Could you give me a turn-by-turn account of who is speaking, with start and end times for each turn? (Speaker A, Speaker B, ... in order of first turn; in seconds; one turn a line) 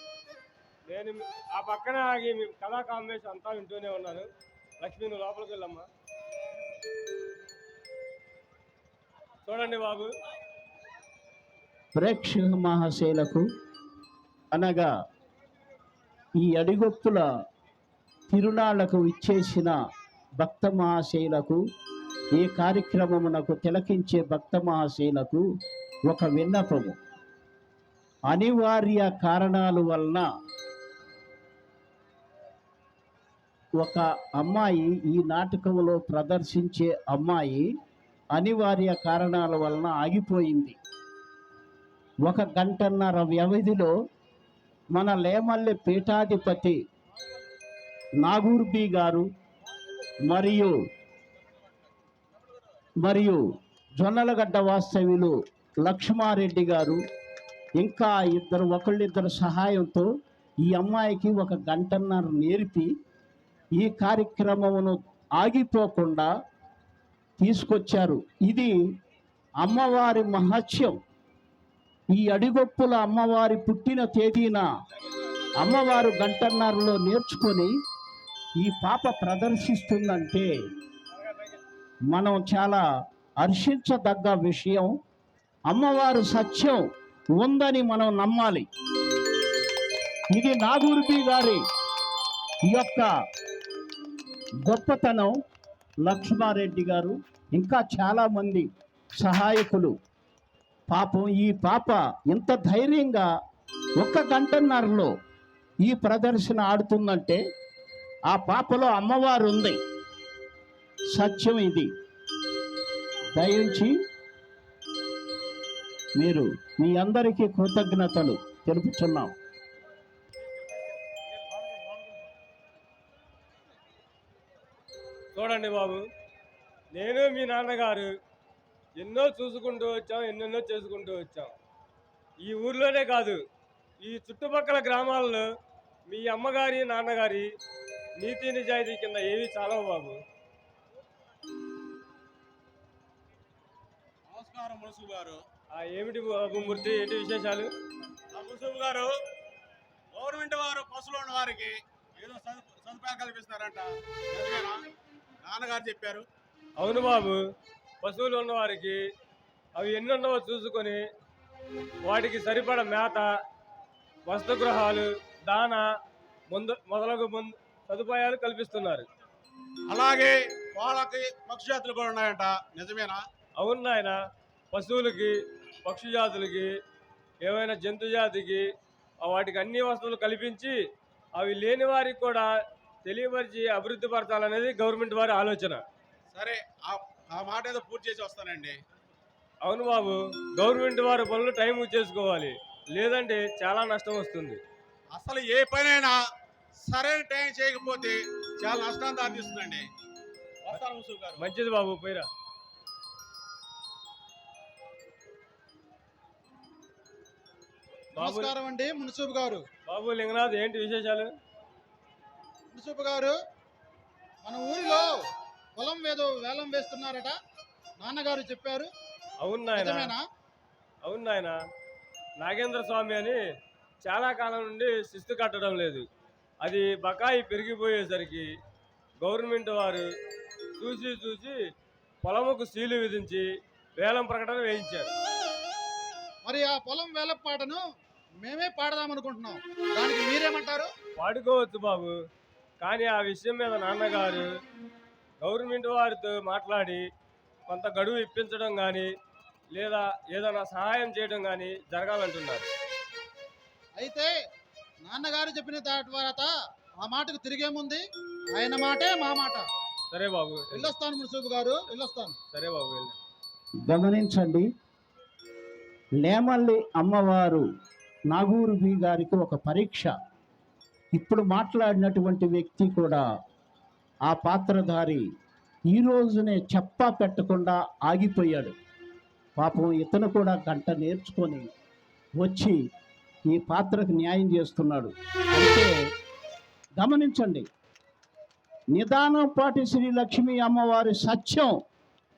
Speaker A: 0.9-4.2
Speaker A: 4.8-5.8
Speaker A: 9.5-10.1
Speaker B: 11.9-13.4
Speaker B: 14.5-14.9
Speaker B: 16.4-17.2
Speaker B: 18.3-19.7
Speaker B: 20.4-21.6
Speaker B: 22.4-25.4
Speaker B: 26.1-27.0
Speaker B: 28.3-30.2
Speaker B: 33.8-37.6
Speaker B: 38.3-40.8
Speaker B: 42.2-43.9
Speaker B: 44.9-46.8
Speaker B: 48.2-49.2
Speaker B: 50.3-50.7
Speaker B: 53.0-53.4
Speaker B: 54.0-57.0
Speaker B: 57.8-60.0
Speaker B: 60.6-62.9
Speaker B: 63.8-66.3
Speaker B: 67.4-68.7
Speaker B: 69.6-70.9
Speaker B: 72.1-74.7
Speaker B: 75.6-77.7
Speaker B: 78.6-80.5
Speaker A: 81.1-81.6
Speaker B: 82.1-82.8
Speaker B: 83.4-84.9
Speaker B: 85.7-86.8
Speaker B: 87.4-88.7
Speaker B: 90.3-91.6
Speaker B: 92.7-93.1
Speaker B: 94.7-95.3
Speaker B: 96.0-98.7
Speaker B: 99.2-99.9
Speaker B: 100.9-103.2
Speaker B: 104.0-105.1
Speaker B: 105.8-107.4
Speaker B: 108.3-109.8
Speaker B: 111.1-111.9
Speaker B: 113.3-113.9
Speaker B: 116.2-119.3
Speaker A: 125.3-126.0
Speaker A: 126.9-128.1
Speaker A: 129.0-131.5
Speaker A: 132.4-133.4
Speaker A: 134.0-135.4
Speaker A: 136.1-137.5
Speaker A: 138.2-140.2
Speaker C: 144.3-145.4
Speaker A: 145.7-147.7
Speaker C: 148.3-149.1
Speaker C: 150.1-154.8
Speaker C: 155.4-156.2
Speaker A: 156.8-157.4
Speaker A: 158.0-159.0
Speaker A: 159.8-161.0
Speaker A: 162.1-163.3
Speaker A: 164.3-165.8
Speaker A: 166.5-169.0
Speaker C: 169.9-173.2
Speaker A: 173.6-174.2
Speaker A: 174.7-175.3
Speaker A: 175.8-176.7
Speaker A: 177.4-178.6
Speaker A: 179.2-180.7
Speaker A: 181.3-182.5
Speaker A: 183.0-185.8
Speaker C: 186.3-188.8
Speaker A: 189.6-194.6
Speaker C: 195.1-196.2
Speaker C: 196.8-199.8
Speaker C: 200.7-201.4
Speaker A: 201.4-202.2
Speaker A: 208.2-208.6
Speaker D: 208.2-209.6
Speaker A: 209.9-211.3
Speaker D: 212.7-213.3
Speaker D: 214.4-215.1
Speaker D: 215.8-217.3
Speaker D: 218.0-218.9
Speaker A: 219.4-220.2
Speaker D: 219.8-220.2
Speaker A: 221.0-221.6
Speaker A: 222.4-223.4
Speaker A: 224.0-226.0
Speaker A: 226.6-228.5
Speaker A: 229.2-230.1
Speaker A: 230.8-231.6
Speaker A: 232.2-233.4
Speaker A: 234.0-235.1
Speaker D: 236.4-237.8
Speaker D: 238.4-240.9
Speaker A: 241.2-242.1
Speaker A: 242.8-244.5
Speaker A: 245.4-247.0
Speaker A: 247.7-249.1
Speaker A: 249.7-252.7
Speaker D: 253.9-254.3
Speaker D: 255.0-256.5
Speaker D: 257.0-259.6
Speaker A: 260.1-260.9
Speaker D: 260.7-262.4
Speaker A: 262.5-263.1
Speaker B: 263.9-264.6
Speaker B: 266.2-267.6
Speaker B: 268.3-270.1
Speaker B: 271.1-273.2
Speaker B: 274.3-275.2
Speaker B: 275.9-278.7
Speaker B: 279.6-281.7
Speaker B: 282.4-282.8
Speaker B: 283.5-285.9
Speaker B: 287.0-287.6
Speaker B: 288.9-291.7